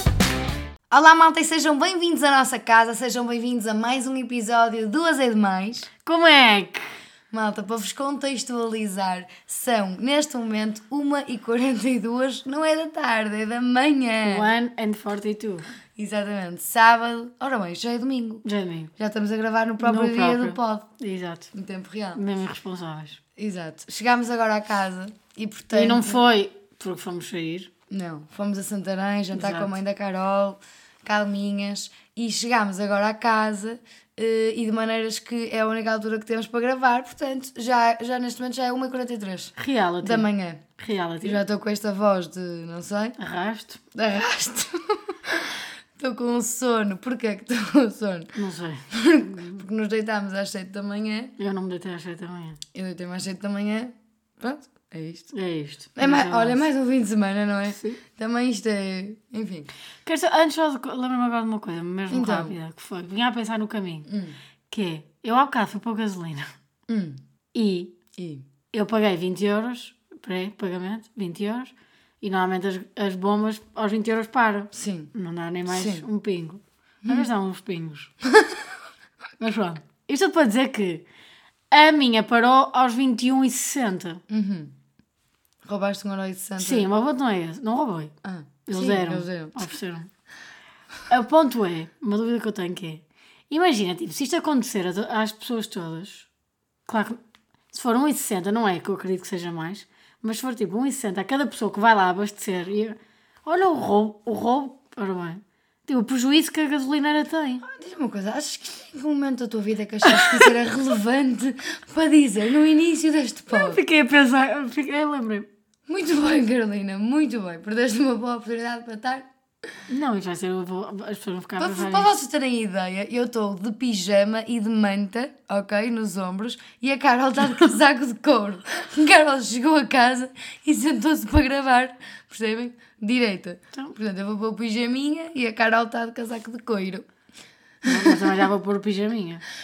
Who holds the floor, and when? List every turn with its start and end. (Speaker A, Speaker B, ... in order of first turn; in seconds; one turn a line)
Speaker A: 0.9-5.9
Speaker B: 6.1-6.8
Speaker A: 7.3-14.5
Speaker B: 14.2-15.7
Speaker A: 16.0-18.4
Speaker B: 18.4-18.9
Speaker A: 19.0-20.9
Speaker B: 19.8-21.5
Speaker A: 21.5-22.2
Speaker B: 22.1-23.2
Speaker A: 23.4-26.2
Speaker B: 25.7-27.7
Speaker A: 27.9-40.6
Speaker B: 29.3-29.7
Speaker B: 39.6-40.3
Speaker B: 40.8-41.4
Speaker A: 41.2-43.2
Speaker B: 43.2-43.8
Speaker A: 43.9-48.3
Speaker B: 48.4-49.6
Speaker A: 48.9-51.4
Speaker B: 51.4-52.6
Speaker A: 52.7-55.3
Speaker B: 55.3-56.6
Speaker A: 56.0-59.7
Speaker B: 60.0-64.1
Speaker A: 62.1-62.5
Speaker A: 64.1-64.4
Speaker B: 64.7-66.5
Speaker A: 66.9-67.2
Speaker B: 67.5-67.9
Speaker A: 68.2-68.5
Speaker B: 68.7-78.1
Speaker A: 74.7-75.1
Speaker A: 75.7-76.0
Speaker A: 78.2-78.6
Speaker B: 79.4-81.0
Speaker B: 81.7-84.2
Speaker A: 84.3-84.7
Speaker A: 85.7-86.9
Speaker B: 86.6-88.1
Speaker A: 88.2-89.7
Speaker B: 88.7-90.1
Speaker B: 91.1-96.3
Speaker B: 96.9-97.2
Speaker B: 97.7-107.6
Speaker A: 107.6-113.8
Speaker B: 110.0-110.5
Speaker B: 113.5-115.5
Speaker A: 115.9-119.3
Speaker B: 119.9-122.1
Speaker A: 121.6-137.1
Speaker A: 137.8-138.3
Speaker B: 137.8-139.4